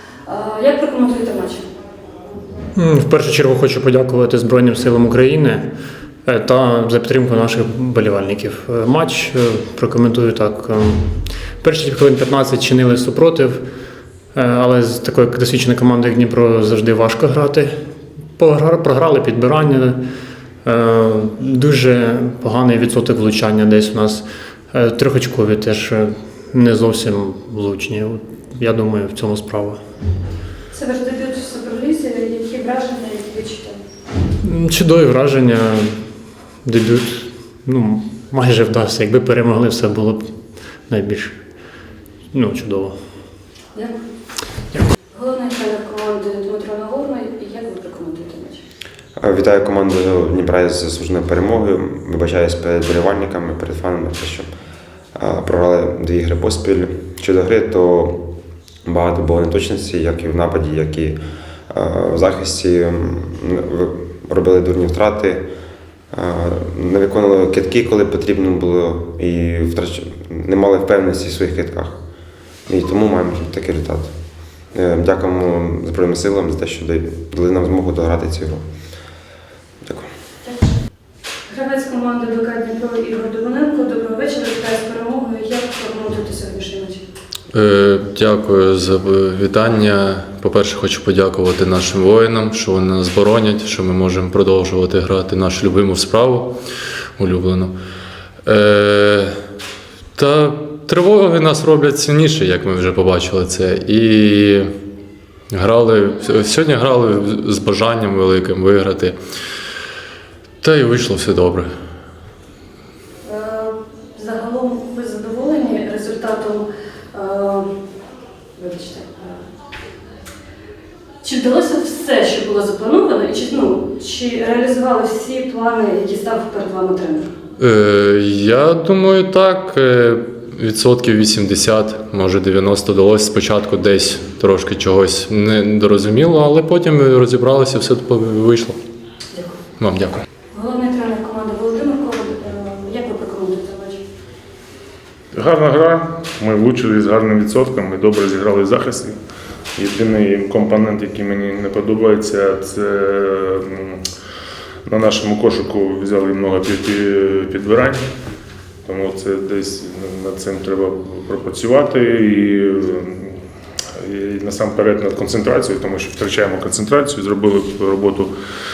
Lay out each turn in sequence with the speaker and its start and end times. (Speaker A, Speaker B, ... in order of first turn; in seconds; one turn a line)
Speaker A: 0.2-1.6
Speaker B: 2.7-5.7
Speaker B: 6.2-13.6
Speaker B: 14.3-17.7
Speaker B: 18.4-20.0
Speaker B: 20.6-29.8
Speaker A: 30.7-33.8
Speaker B: 34.4-36.0
Speaker B: 36.6-40.3
Speaker B: 40.9-41.4
Speaker B: 42.3-43.0
Speaker A: 45.1-48.6
Speaker C: 49.2-54.5
Speaker C: 55.1-58.3
Speaker C: 58.9-61.2
Speaker C: 61.7-65.5
Speaker C: 66.1-72.0
Speaker C: 72.7-74.1
Speaker C: 74.7-78.6
Speaker A: 81.5-87.0
Speaker D: 87.5-96.5
Speaker D: 97.2-97.7
Speaker D: 98.4-99.3
Speaker D: 100.2-104.7
Speaker D: 105.5-109.2
Speaker D: 110.6-111.7
Speaker A: 113.2-117.7
Speaker A: 118.6-119.4
Speaker A: 121.2-127.3
Speaker D: 127.6-138.8
Speaker D: 139.8-140.2
Speaker A: 140.5-144.0
Speaker E: 145.3-149.1
Speaker E: 149.8-154.0
Speaker E: 154.8-158.0
Speaker E: 158.8-163.4
Speaker E: 164.0-168.3